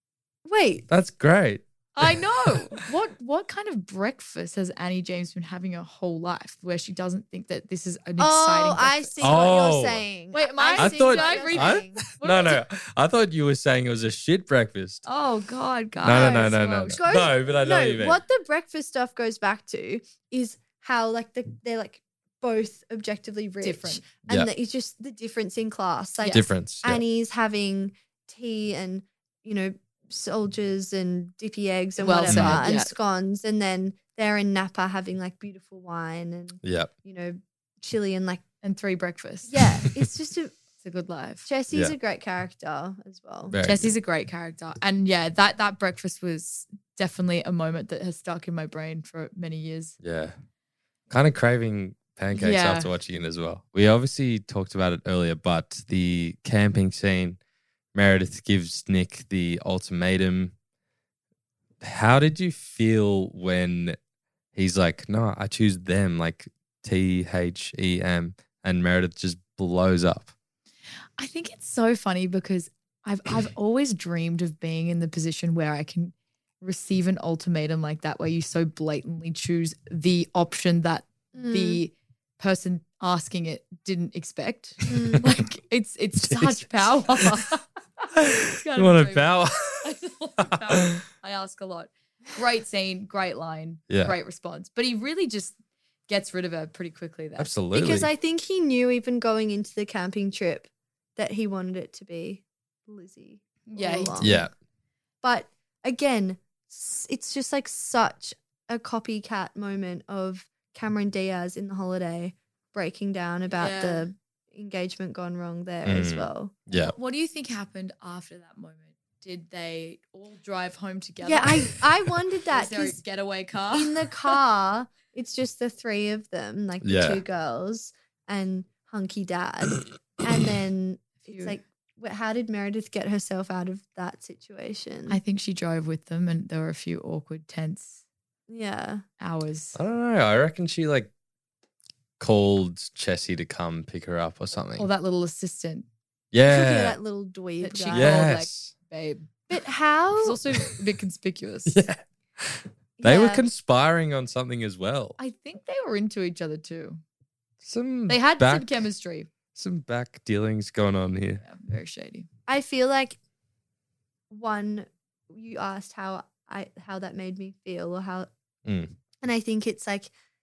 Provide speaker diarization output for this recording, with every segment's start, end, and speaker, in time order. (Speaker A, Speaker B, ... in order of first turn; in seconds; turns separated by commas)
Speaker A: 0.4-0.8, Speaker B: 0.9-2.6, Speaker C: 1.9-9.1, Speaker A: 8.2-12.2, Speaker B: 9.2-10.0, Speaker C: 10.3-12.6, Speaker B: 10.8-15.0, Speaker C: 15.0-17.1, Speaker B: 16.0-18.2, Speaker A: 16.1-38.4, Speaker C: 23.6-24.0, Speaker B: 26.3-27.0, Speaker C: 32.0-32.9, Speaker B: 32.2-32.7, Speaker B: 36.6-36.9, Speaker C: 38.6-39.5, Speaker A: 39.5-40.5, Speaker C: 40.8-41.5, Speaker A: 41.4-43.5, Speaker B: 43.5-43.9, Speaker C: 43.6-50.0, Speaker B: 50.0-50.3, Speaker B: 51.1-57.4, Speaker C: 52.3-52.9, Speaker B: 57.9-60.5, Speaker B: 61.8-64.0, Speaker B: 64.5-70.3, Speaker C: 71.2-87.6, Speaker A: 81.3-81.8, Speaker A: 84.8-85.2, Speaker B: 86.2-86.8, Speaker B: 88.1-89.9, Speaker C: 88.4-95.5, Speaker B: 93.9-94.2, Speaker C: 96.1-97.5, Speaker B: 97.4-98.1, Speaker A: 97.7-104.5, Speaker C: 103.7-104.3, Speaker B: 104.2-104.5, Speaker A: 105.2-116.6, Speaker C: 113.5-114.1, Speaker B: 115.8-116.9, Speaker C: 116.7-121.8, Speaker A: 121.2-123.0, Speaker C: 122.5-124.3, Speaker A: 123.7-135.2, Speaker B: 126.8-127.2, Speaker C: 131.2-131.6, Speaker C: 135.1-138.0, Speaker A: 138.5-139.0, Speaker C: 139.2-139.8, Speaker B: 139.7-141.1, Speaker B: 142.2-144.9, Speaker C: 144.8-145.8, Speaker B: 146.3-147.0, Speaker A: 146.4-148.3, Speaker C: 147.6-149.3, Speaker B: 147.9-148.7, Speaker A: 149.5-150.4, Speaker C: 150.2-151.8, Speaker B: 151.7-155.2, Speaker A: 153.0-153.4, Speaker C: 155.2-157.0, Speaker B: 157.6-158.7, Speaker C: 158.1-159.3, Speaker B: 159.5-161.4, Speaker C: 161.4-162.3, Speaker A: 162.5-163.2, Speaker A: 164.3-168.3, Speaker B: 168.6-168.9, Speaker A: 169.2-170.1